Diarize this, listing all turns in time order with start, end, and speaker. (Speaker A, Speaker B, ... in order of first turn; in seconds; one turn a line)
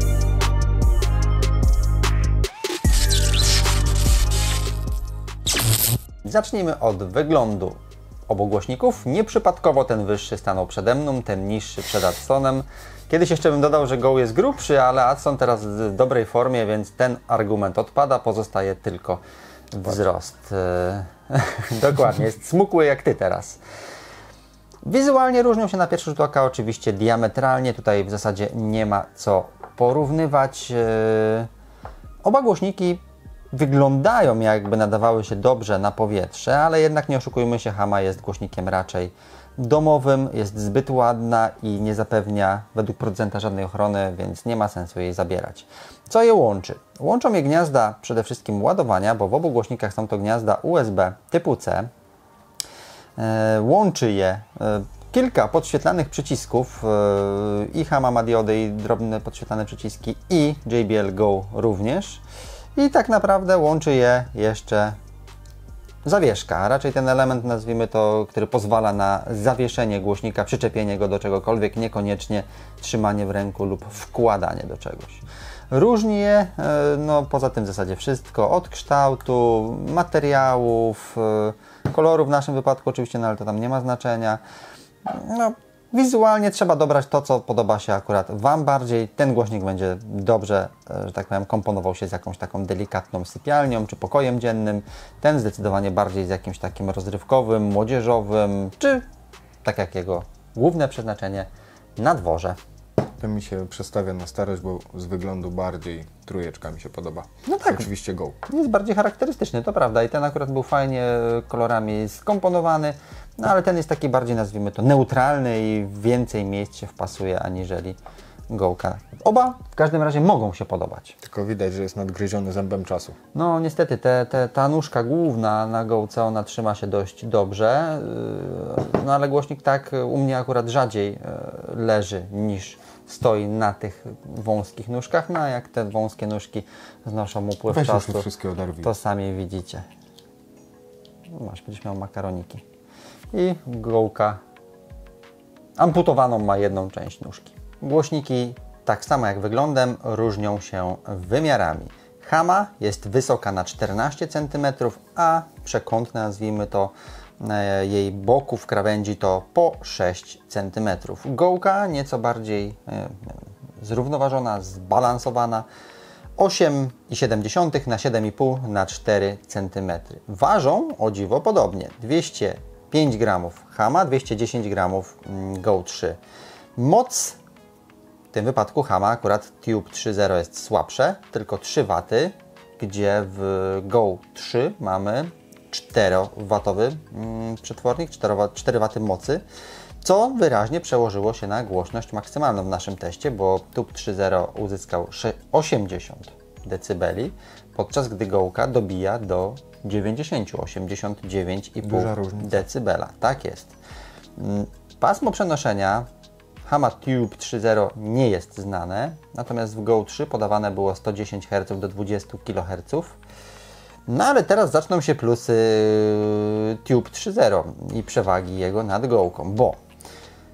Speaker A: 6.2-23.6
Speaker A: 24.8-31.5
Speaker A: 32.2-51.9
Speaker A: 53.2-62.2
Speaker A: 62.8-65.0
Speaker A: 66.0-84.4
Speaker A: 85.0-99.0
Speaker A: 99.6-102.6
Speaker B: 103.2-108.4
Speaker A: 107.5-107.9
Speaker A: 108.5-118.0
Speaker A: 118.5-121.2
Speaker B: 121.2-123.2
Speaker A: 123.3-138.3
Speaker B: 137.7-138.9
Speaker A: 138.8-139.8
Speaker A: 141.3-142.6
Speaker A: 143.3-144.4
Speaker A: 145.8-165.7
Speaker A: 166.4-176.2
Speaker A: 176.8-177.4
Speaker A: 178.3-189.4
Speaker A: 190.0-203.7
Speaker B: 201.8-202.6
Speaker A: 204.4-206.1
Speaker A: 206.7-213.2
Speaker A: 214.1-219.8